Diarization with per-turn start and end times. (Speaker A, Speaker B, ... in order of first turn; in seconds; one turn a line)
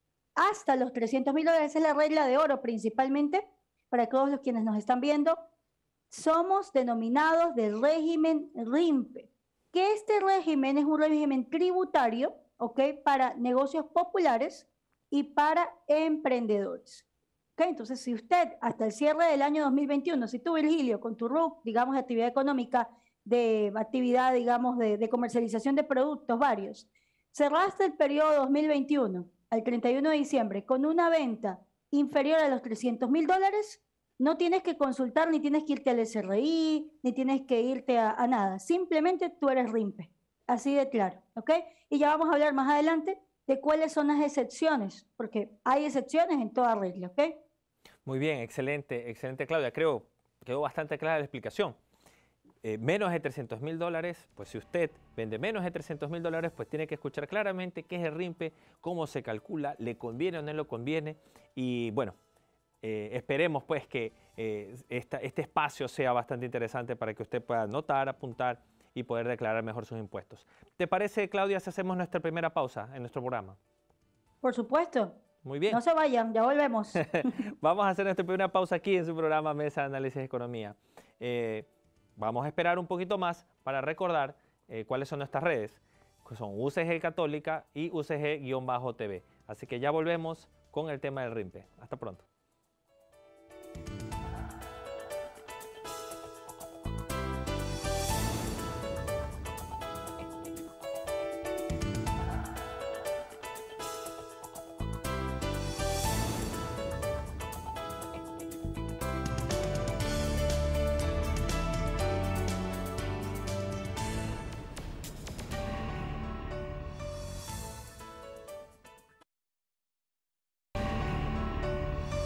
Speaker A: 0.4-5.4
Speaker A: 6.1-17.1
Speaker A: 17.6-47.4
Speaker B: 48.0-51.8
Speaker B: 52.6-62.2
Speaker B: 62.8-73.6
Speaker A: 74.4-75.2
Speaker B: 75.4-75.8
Speaker A: 75.7-77.3
Speaker B: 77.0-92.3